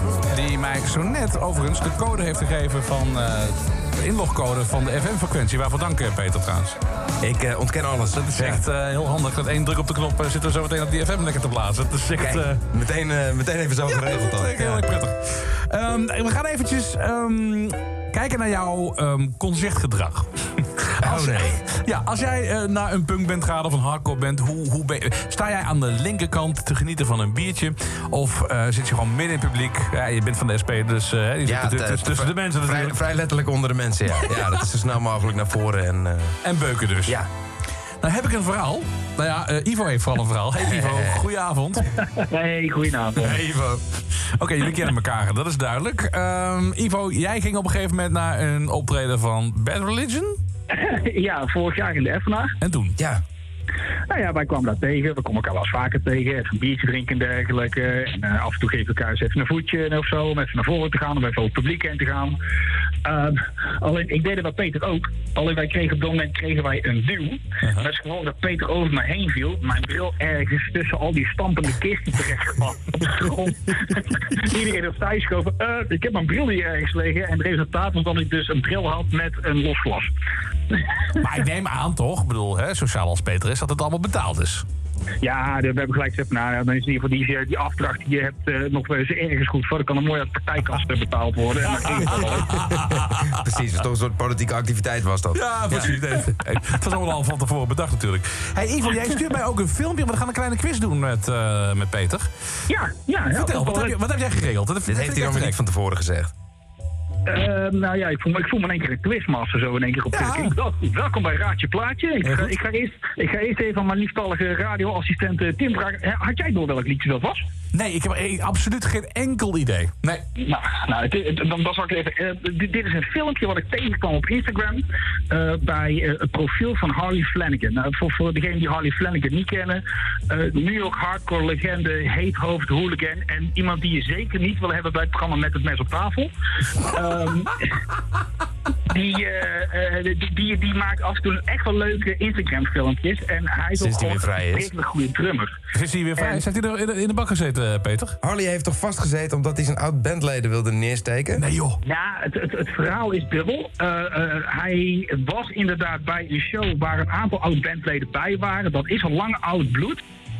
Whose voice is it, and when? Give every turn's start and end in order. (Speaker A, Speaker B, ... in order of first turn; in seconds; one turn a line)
Speaker A: 0.2-6.8
Speaker B: 7.2-8.6
Speaker A: 8.1-12.6
Speaker B: 12.2-14.8
Speaker A: 13.9-33.0
Speaker B: 21.0-21.6
Speaker B: 31.4-36.4
Speaker A: 34.1-34.6
Speaker A: 36.4-37.2
Speaker A: 38.0-41.9
Speaker B: 40.6-41.2
Speaker C: 42.1-43.4
Speaker B: 43.2-43.8
Speaker A: 44.4-50.4
Speaker C: 50.7-52.5
Speaker A: 52.6-53.0
Speaker C: 54.1-62.4
Speaker C: 63.0-80.1
Speaker A: 67.6-67.9
Speaker A: 81.2-84.7
Speaker C: 85.2-92.5
Speaker A: 91.6-93.4
Speaker B: 92.2-95.9
Speaker A: 95.3-102.3
Speaker C: 102.7-104.0
Speaker A: 103.3-105.6
Speaker B: 104.9-106.3
Speaker C: 107.2-117.4
Speaker A: 110.1-110.5
Speaker A: 112.2-112.5
Speaker A: 117.7-120.2
Speaker C: 120.4-137.6
Speaker C: 138.9-145.6
Speaker B: 143.8-144.7
Speaker A: 145.7-148.2
Speaker B: 148.2-151.4
Speaker A: 151.3-151.8
Speaker C: 151.8-160.0